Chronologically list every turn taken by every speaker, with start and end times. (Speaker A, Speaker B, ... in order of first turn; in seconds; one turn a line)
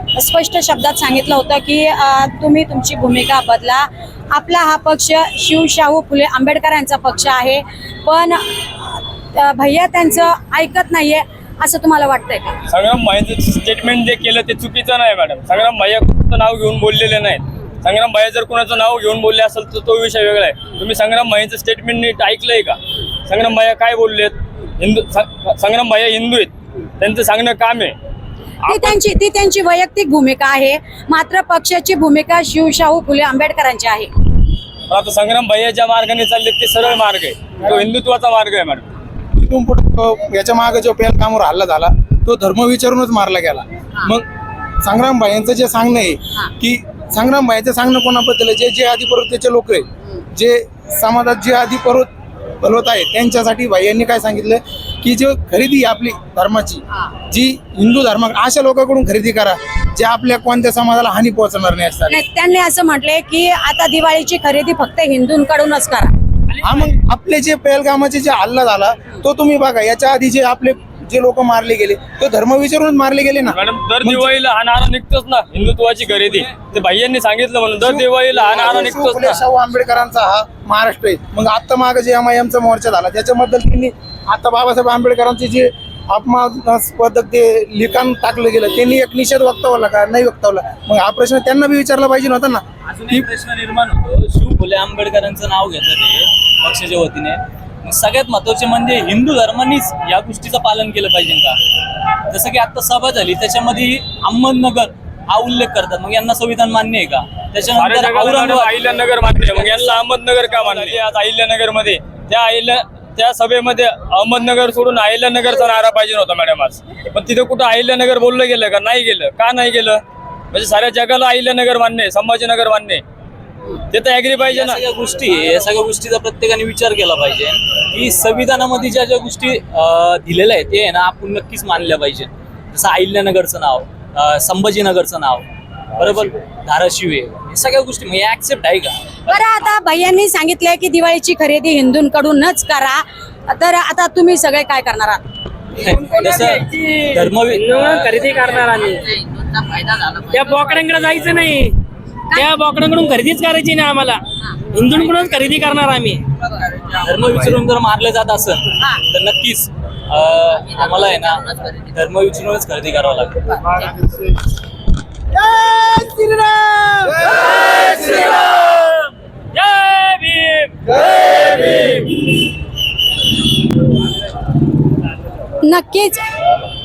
Speaker A: 0.1-12.6
Speaker B: 12.7-27.9
Speaker B: 28.6-28.9
Speaker A: 28.6-34.1
Speaker B: 34.9-38.8
Speaker C: 39.4-44.2
Speaker C: 44.8-52.1
Speaker C: 52.6-62.2
Speaker A: 62.1-66.1
Speaker C: 66.6-74.3
Speaker B: 73.5-79.3
Speaker C: 77.8-93.3
Speaker D: 92.8-101.6
Speaker D: 102.3-110.0
Speaker B: 107.7-123.0
Speaker B: 123.9-124.8
Speaker D: 124.5-139.4
Speaker A: 139.3-145.2
Speaker D: 145.8-148.2
Speaker E: 146.1-149.0
Speaker F: 148.3-150.9
Speaker E: 150.3-151.8
Speaker E: 152.3-156.3
Speaker D: 156.9-163.7
Speaker F: 161.0-161.7
Speaker E: 165.5-172.1
Speaker A: 175.6-176.2